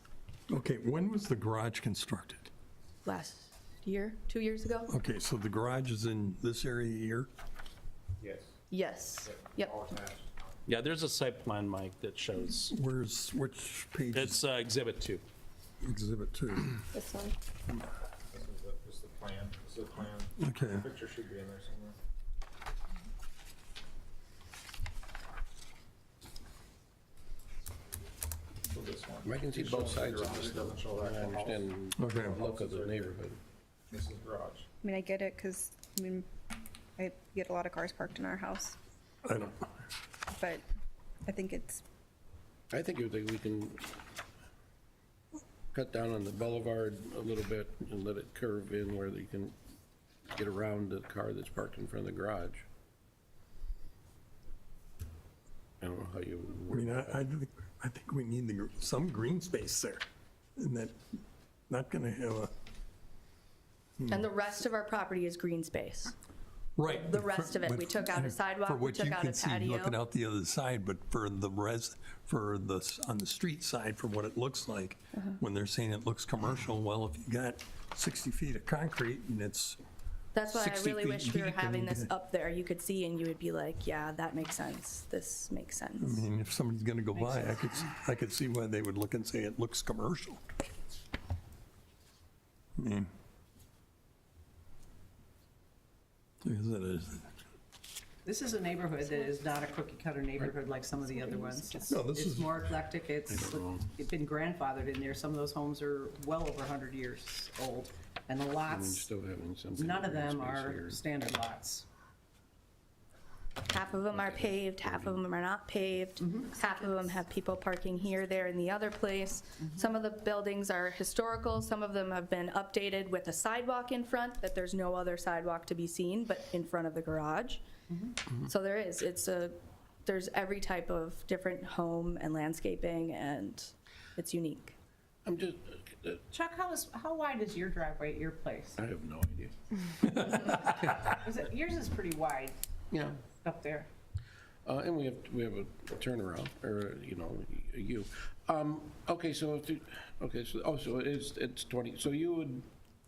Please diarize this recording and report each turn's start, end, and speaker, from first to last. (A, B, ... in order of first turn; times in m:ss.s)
0:00.5-0:02.5 A
0:03.0-0:04.9 B
0:04.9-0:07.3 A
0:08.2-0:08.6 C
0:08.7-0:09.7 B
0:09.2-0:10.6 C
0:10.7-0:12.7 D
0:12.7-0:14.4 A
0:14.1-0:15.2 D
0:15.8-0:16.8 A
0:16.9-0:17.3 E
0:18.3-0:22.0 C
0:20.4-0:20.8 A
0:28.7-0:33.2 C
0:29.2-0:33.4 F
0:32.0-0:32.4 A
0:33.9-0:34.7 C
0:34.8-0:36.2 E
0:37.0-0:38.8 E
0:39.2-0:39.6 A
0:40.3-0:40.6 E
0:41.2-0:41.8 E
0:42.7-0:43.9 F
0:45.7-0:49.5 F
0:50.3-0:52.6 F
0:55.8-0:57.2 F
0:56.7-1:00.0 A
1:00.6-1:01.0 A
1:01.7-1:02.5 A
1:04.0-1:04.2 A
1:04.1-1:06.1 B
1:06.8-1:19.8 A
1:06.8-1:10.0 B
1:20.3-1:26.2 B
1:20.5-1:22.1 A
1:26.0-1:30.5 A
1:27.2-1:27.9 G
1:32.8-1:33.1 A
1:36.4-1:37.3 A
1:38.2-1:49.1 G
1:41.2-1:41.7 E
1:41.9-1:42.7 A
1:43.3-1:43.9 F
1:48.6-1:51.0 F
1:49.8-1:51.8 G
1:53.7-2:07.6 B
1:54.1-1:55.2 F
2:08.4-2:14.8 B
2:15.2-2:16.2 F
2:16.3-2:18.8 G
2:18.8-2:20.2 F
2:20.2-2:22.6 G
2:22.9-2:23.2 F
2:23.2-2:23.9 G
2:24.6-2:32.6 F